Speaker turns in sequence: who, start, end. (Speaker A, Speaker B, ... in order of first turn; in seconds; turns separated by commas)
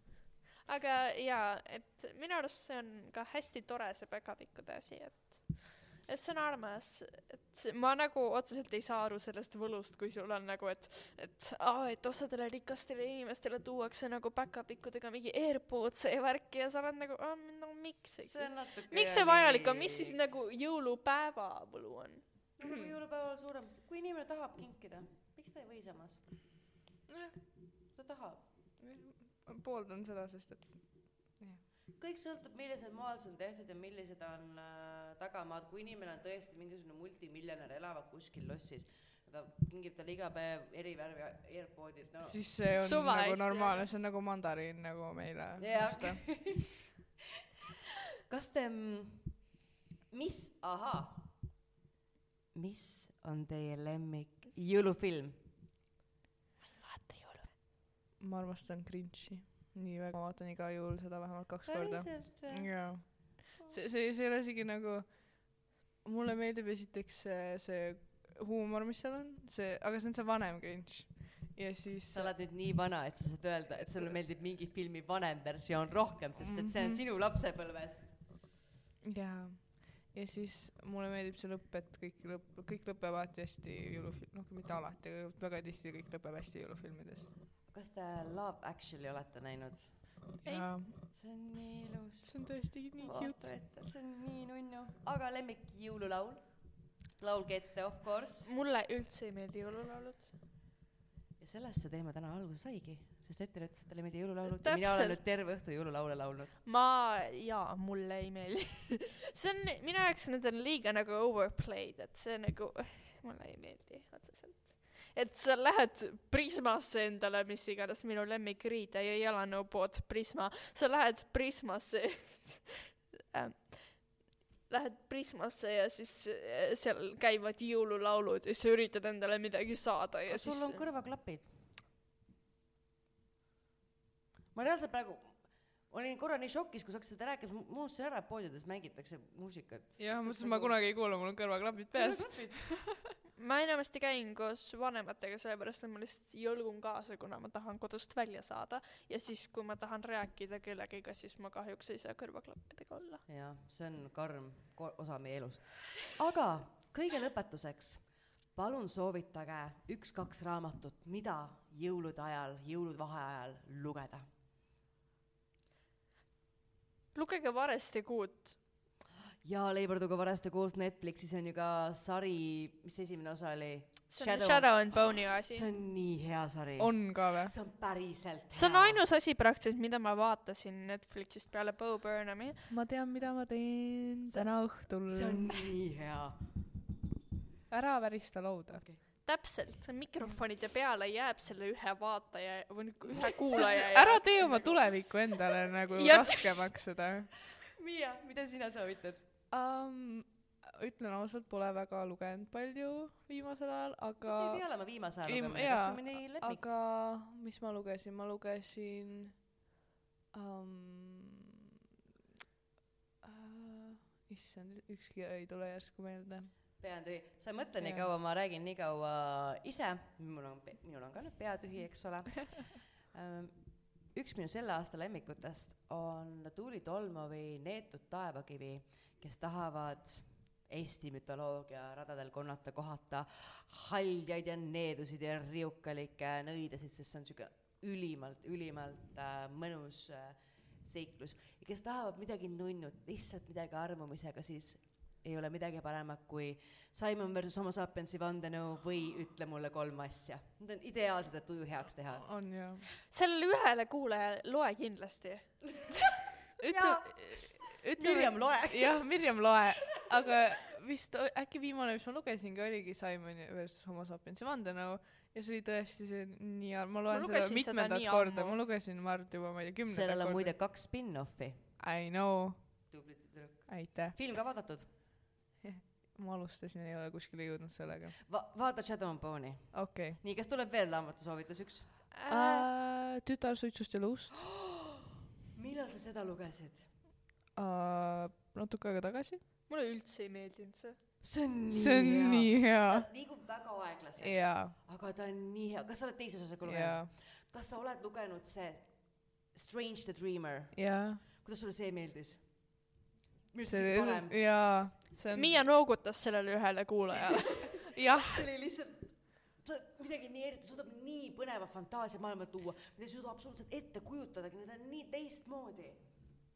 Speaker A: 0.7-22.2, Speaker B: 18.2-20.2, Speaker B: 22.6-26.2, Speaker C: 22.6-22.9, Speaker C: 27.1-27.3, Speaker B: 27.9-28.4, Speaker C: 28.8-31.6, Speaker B: 31.9-42.4, Speaker C: 42.2-46.5, Speaker A: 42.7-43.9, Speaker B: 45.6-46.7, Speaker B: 48.3-49.4, Speaker B: 50.1-51.3, Speaker B: 52.5-55.5, Speaker A: 56.7-57.5, Speaker C: 58.2-72.3, Speaker B: 61.6-63.7, Speaker B: 72.1-78.1, Speaker C: 76.4-77.0, Speaker C: 79.0-87.3, Speaker B: 87.7-90.2, Speaker C: 90.4-91.0, Speaker A: 90.4-90.7, Speaker B: 91.0-98.5, Speaker C: 92.2-93.5, Speaker A: 98.4-100.3, Speaker B: 101.4-106.6, Speaker A: 104.6-105.2, Speaker A: 106.6-130.8, Speaker B: 130.3-131.6, Speaker B: 134.5-140.8, Speaker C: 140.0-143.0, Speaker B: 141.9-142.7, Speaker A: 143.4-153.2, Speaker B: 153.3-164.3, Speaker A: 167.1-168.6, Speaker B: 169.4-179.0, Speaker A: 174.1-175.7, Speaker C: 176.8-177.5, Speaker A: 178.5-182.7, Speaker C: 182.7-185.7, Speaker B: 185.0-186.5, Speaker C: 187.7-188.8, Speaker B: 188.7-189.0, Speaker A: 189.2-194.9, Speaker C: 193.1-197.3, Speaker A: 195.9-196.6, Speaker B: 197.8-199.2, Speaker C: 199.5-204.7, Speaker B: 204.2-206.6, Speaker C: 205.2-209.5, Speaker C: 210.3-211.6, Speaker C: 213.2-216.6, Speaker B: 216.8-252.2, Speaker C: 217.8-218.1, Speaker C: 252.2-252.9, Speaker A: 253.1-256.2, Speaker C: 256.6-270.5, Speaker B: 256.6-259.3, Speaker A: 267.1-268.6, Speaker B: 269.8-271.7, Speaker C: 271.8-272.9, Speaker B: 272.9-274.9, Speaker C: 273.7-274.2, Speaker C: 275.6-278.1, Speaker B: 278.3-282.1, Speaker C: 279.7-280.2, Speaker A: 282.1-282.7, Speaker C: 282.3-284.4, Speaker B: 284.4-285.0, Speaker B: 285.5-286.9, Speaker C: 287.6-289.4, Speaker A: 289.7-291.0, Speaker B: 291.2-302.8, Speaker C: 291.7-293.1, Speaker C: 294.2-294.7, Speaker C: 296.6-297.1, Speaker C: 300.7-301.2, Speaker B: 303.5-304.4, Speaker C: 303.6-305.6, Speaker A: 305.3-307.9, Speaker C: 307.9-308.4, Speaker B: 308.2-316.0